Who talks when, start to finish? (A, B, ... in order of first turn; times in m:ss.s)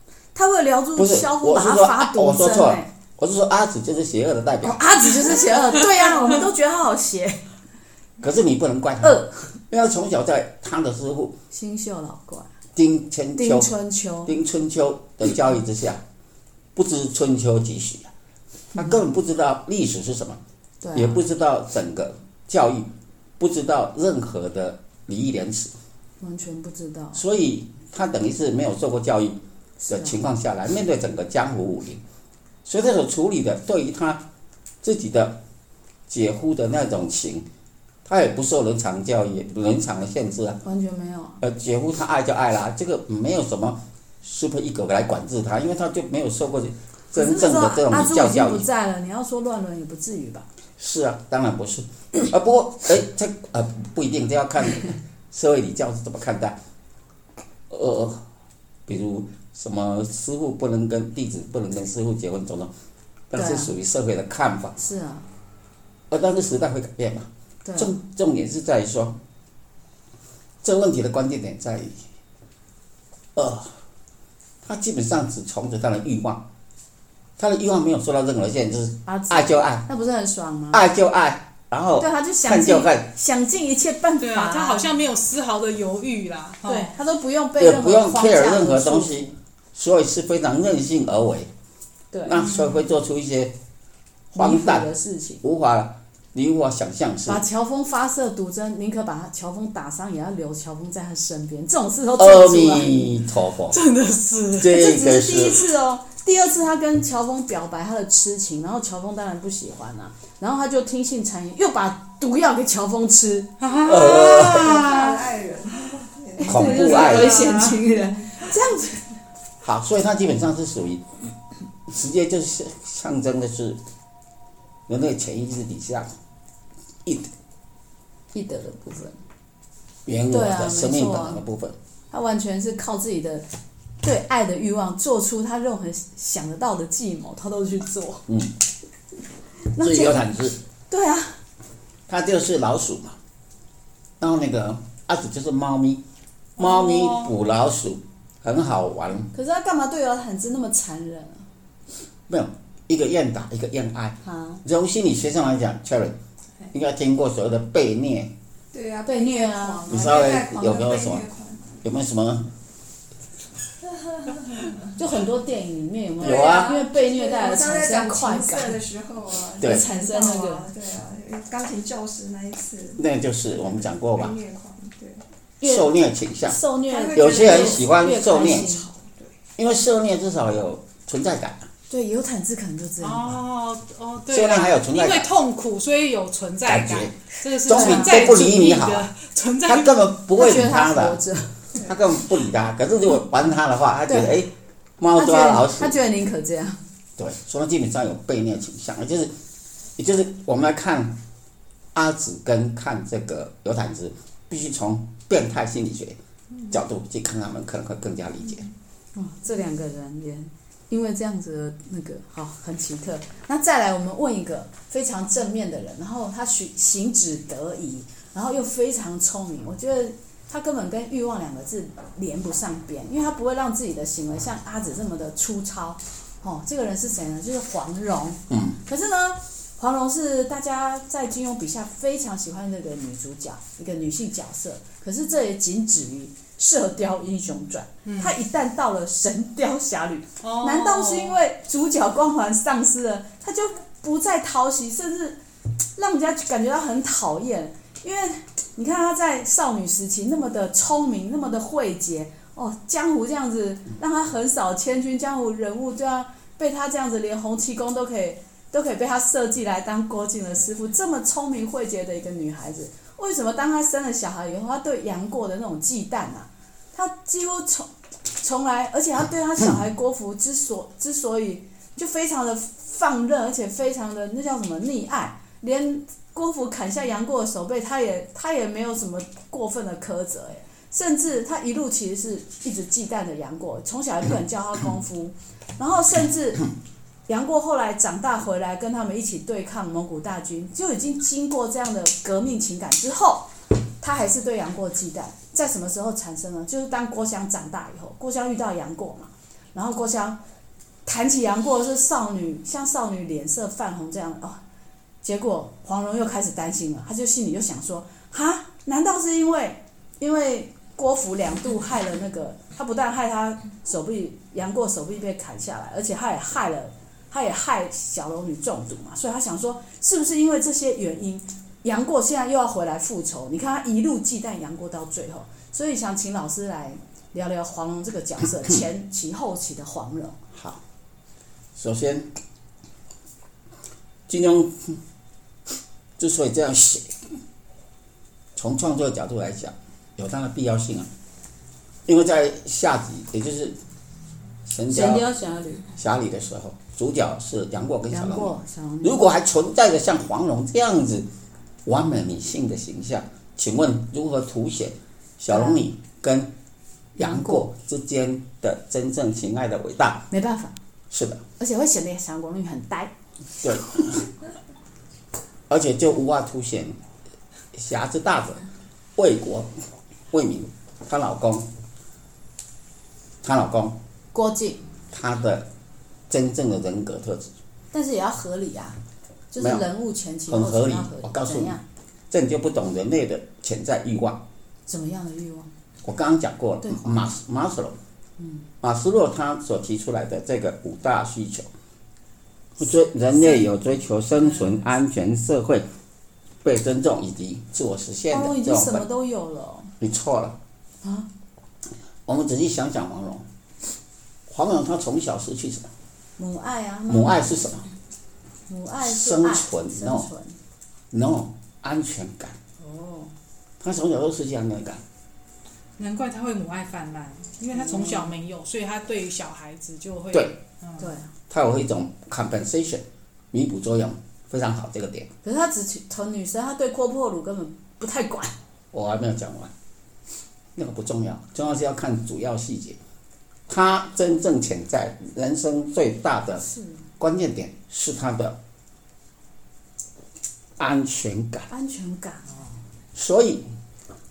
0:00.3-0:02.9 A
0:01.0-0:04.8 B
0:04.6-0:07.5 A
0:08.2-0:09.2 B
0:09.0-0:09.6 A
0:09.7-0:11.4 B
0:11.5-0:12.5 A
0:12.8-0:13.7 B
0:13.4-0:14.4 A
0:14.3-0:16.0 B
0:16.7-0:18.1 B
0:18.7-0:20.4 B
0:20.8-0:21.2 A
0:20.9-0:25.7 B
0:26.2-0:27.2 A
0:27.2-0:29.4 B
0:29.8-0:30.2 A
0:29.9-0:32.0 B
0:32.6-0:34.2 B
0:34.8-0:35.4 B
0:36.1-0:37.5 B
0:38.0-0:40.6 B
0:40.6-0:41.4 A
0:41.4-0:48.7 B
0:47.2-0:50.5 A
0:50.8-0:56.6 B
0:57.7-0:58.2 B
0:58.9-1:02.7 B
1:03.3-1:04.8 B
1:03.4-1:03.8 A
1:04.8-1:05.3 A
1:06.1-1:09.2 B
1:07.6-1:08.0 A
1:10.6-1:12.0 B
1:13.4-1:13.8 B
1:14.6-1:16.4 B
1:17.4-1:19.8 B
1:19.1-1:20.9 A
1:20.7-1:23.1 B
1:22.0-1:24.8 A
1:24.2-1:26.9 C
1:26.7-1:29.4 A
1:27.6-1:31.5 B
1:32.1-1:32.5 A
1:32.2-1:33.5 B
1:32.4-1:32.8 C
1:34.3-1:34.9 B
1:34.3-1:35.4 A
1:35.4-1:37.4 B
1:37.3-1:43.2 A
1:42.2-1:43.8 B
1:43.7-1:44.8 C
1:44.6-1:45.7 B
1:44.7-1:53.5 A
1:53.6-1:55.2 C
1:53.8-1:54.8 B
1:53.9-1:57.7 D
1:56.4-1:59.1 A
1:56.4-1:57.5 B
1:56.5-1:57.8 C
1:59.6-2:01.0 B
2:01.9-2:03.8 B
2:04.9-2:06.1 B
2:07.0-2:07.3 B
2:08.3-2:09.2 A
2:10.1-2:11.8 B
2:10.3-2:11.4 A
2:12.1-2:13.5 A
2:14.0-2:18.3 A
2:19.7-2:20.3 A
2:19.8-2:20.6 B
2:20.9-2:21.4 A
2:22.1-2:23.2 B
2:24.2-2:26.0 B
2:26.6-2:29.3 B
2:26.6-2:27.3 C
2:29.3-2:31.4 A
2:32.3-2:36.2 B
2:34.2-2:34.6 A
2:36.7-2:38.3 B
2:38.7-2:41.8 D
2:39.0-2:40.3 A
2:39.9-2:41.3 B
2:41.8-2:42.5 B
2:45.0-2:48.8 A
2:46.2-2:46.8 B
2:46.2-2:55.2 D
2:49.6-2:50.7 A
2:53.0-2:54.4 B
2:55.6-2:59.0 A
2:55.6-2:56.6 B
2:56.9-2:59.4 D
2:57.2-2:58.7 B
2:59.6-3:01.7 B
3:01.9-3:03.4 A
3:03.0-3:09.9 C
3:04.3-3:05.3 B
3:06.7-3:09.1 B
3:07.7-3:08.4 A
3:09.6-3:11.2 B
3:10.3-3:11.6 A
3:11.8-3:16.0 B
3:14.1-3:14.4 A
3:15.1-3:16.8 A
3:17.2-3:19.3 B
3:20.0-3:21.2 B
3:21.9-3:26.2 B
3:26.7-3:28.7 B
3:29.2-4:05.4 A
3:48.5-3:48.8 B
3:58.1-3:58.4 C
4:00.4-4:01.4 C
4:06.0-4:46.7 A
4:47.3-5:00.4 A
5:01.0-5:04.6 A
5:05.2-5:30.4 A
5:30.5-5:30.8 B
5:31.8-5:32.3 B
5:34.3-5:35.0 B
5:36.2-5:37.1 B
5:38.6-5:41.1 B
5:42.1-5:43.8 B
5:44.7-5:45.2 B
5:44.9-5:45.9 A
5:46.0-5:51.3 B
5:48.1-5:49.3 A
5:51.8-5:56.5 B
5:55.5-5:55.8 A
5:57.2-5:57.7 A
5:57.2-6:00.3 B
6:00.3-6:00.8 A
6:01.1-6:01.4 B
6:01.6-6:03.1 A
6:03.6-6:04.3 B
6:05.7-6:07.0 B
6:07.7-6:08.6 B
6:09.2-6:09.7 B
6:10.3-6:11.7 B
6:13.4-6:14.0 B
6:14.3-6:14.9 A
6:15.1-6:15.7 B
6:16.3-6:17.5 B
6:17.9-6:19.0 A
6:19.5-6:21.8 A
6:19.6-6:19.8 B
6:20.5-6:21.8 B
6:22.3-6:24.4 B
6:24.9-6:25.7 A
6:26.0-6:28.0 B
6:26.8-6:27.3 A
6:28.4-6:28.7 A
6:28.8-6:31.7 B
6:32.8-6:35.9 B
6:36.6-6:39.0 B
6:38.3-6:39.9 A
6:40.0-6:40.6 B
6:41.0-6:41.3 A
6:42.3-6:43.5 B
6:44.5-6:45.9 B
6:46.4-6:47.6 A
6:47.1-6:47.9 B
6:48.7-6:50.6 A
6:49.0-6:50.3 B
6:51.1-6:52.6 B
6:52.8-6:53.3 A
6:53.8-6:55.0 B
6:56.0-7:01.1 C
6:57.7-6:58.3 A
7:01.0-7:01.3 A
7:01.5-7:05.3 B
7:05.4-7:08.5 A
7:08.9-7:09.7 B
7:10.8-7:13.0 B
7:13.7-7:16.6 B
7:16.6-7:17.0 A
7:17.2-7:18.6 B
7:20.8-7:21.7 B
7:21.7-7:22.8 A
7:23.2-7:23.6 B